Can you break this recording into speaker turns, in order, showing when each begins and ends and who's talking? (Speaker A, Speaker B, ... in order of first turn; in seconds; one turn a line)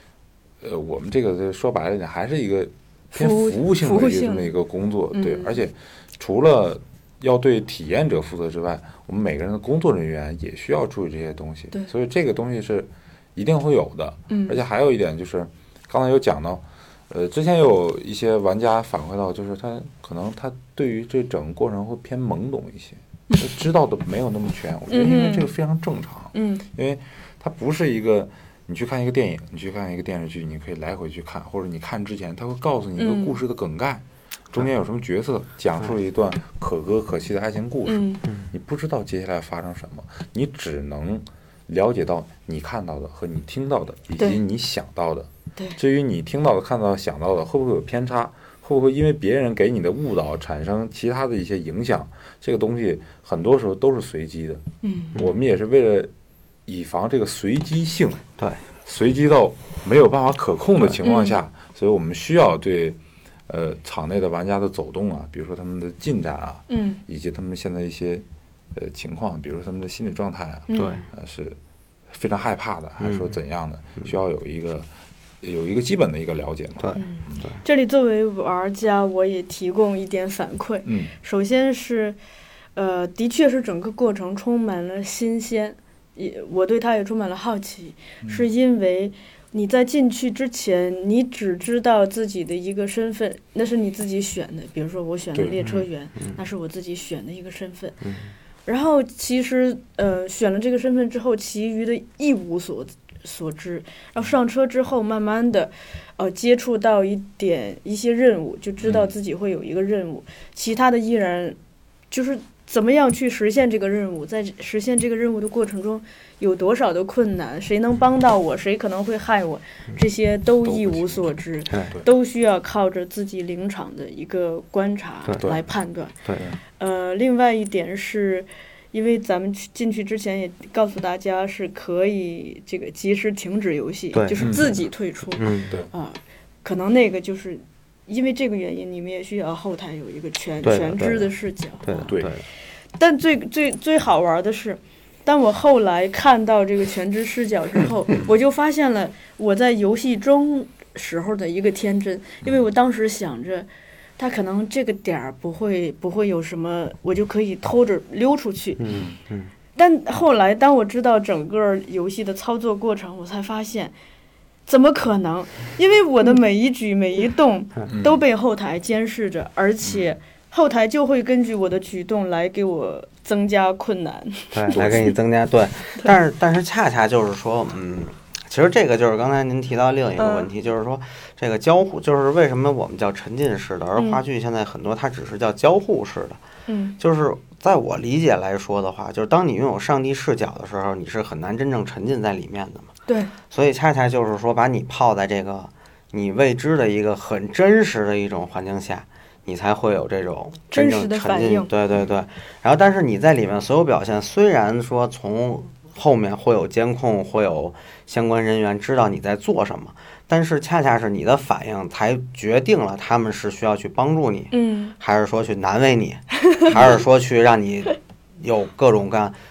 Speaker A: 0.6-54.6
Speaker B: 3.1-4.5
Speaker B: 5.1-5.6
Speaker B: 14.3-14.6
Speaker B: 24.9-25.5
Speaker B: 26.3-26.6
Speaker B: 33.0-33.4
Speaker B: 37.9-38.2
Speaker B: 54.8-55.1
Speaker A: 55.1-56.1
Speaker A: 56.6-58.2
Speaker A: 58.8-71.6
Speaker B: 61.0-61.4
Speaker B: 66.7-67.0
Speaker B: 70.7-71.0
Speaker C: 70.7-71.0
Speaker A: 72.1-74.9
Speaker C: 73.0-73.3
Speaker A: 75.4-77.5
Speaker C: 76.8-77.6
Speaker B: 77.0-82.2
Speaker A: 80.8-81.1
Speaker B: 82.8-98.0
Speaker C: 95.6-96.4
Speaker C: 98.0-98.3
Speaker B: 98.7-111.6
Speaker A: 108.8-109.1
Speaker B: 112.1-126.1
Speaker A: 120.7-121.2
Speaker B: 126.8-142.1
Speaker C: 134.1-134.5
Speaker A: 134.4-134.8
Speaker C: 135.4-135.7
Speaker C: 140.6-141.3
Speaker C: 141.8-142.4
Speaker A: 142.1-142.3
Speaker B: 143.0-158.8
Speaker C: 158.8-159.5
Speaker B: 159.8-163.9
Speaker B: 164.7-175.1
Speaker A: 167.9-168.2
Speaker C: 174.5-186.4
Speaker A: 174.7-175.1
Speaker B: 180.2-180.5
Speaker B: 186.7-186.9
Speaker C: 187.0-192.9
Speaker B: 193.1-193.3
Speaker C: 193.5-219.4
Speaker B: 200.7-201.7
Speaker B: 214.5-214.9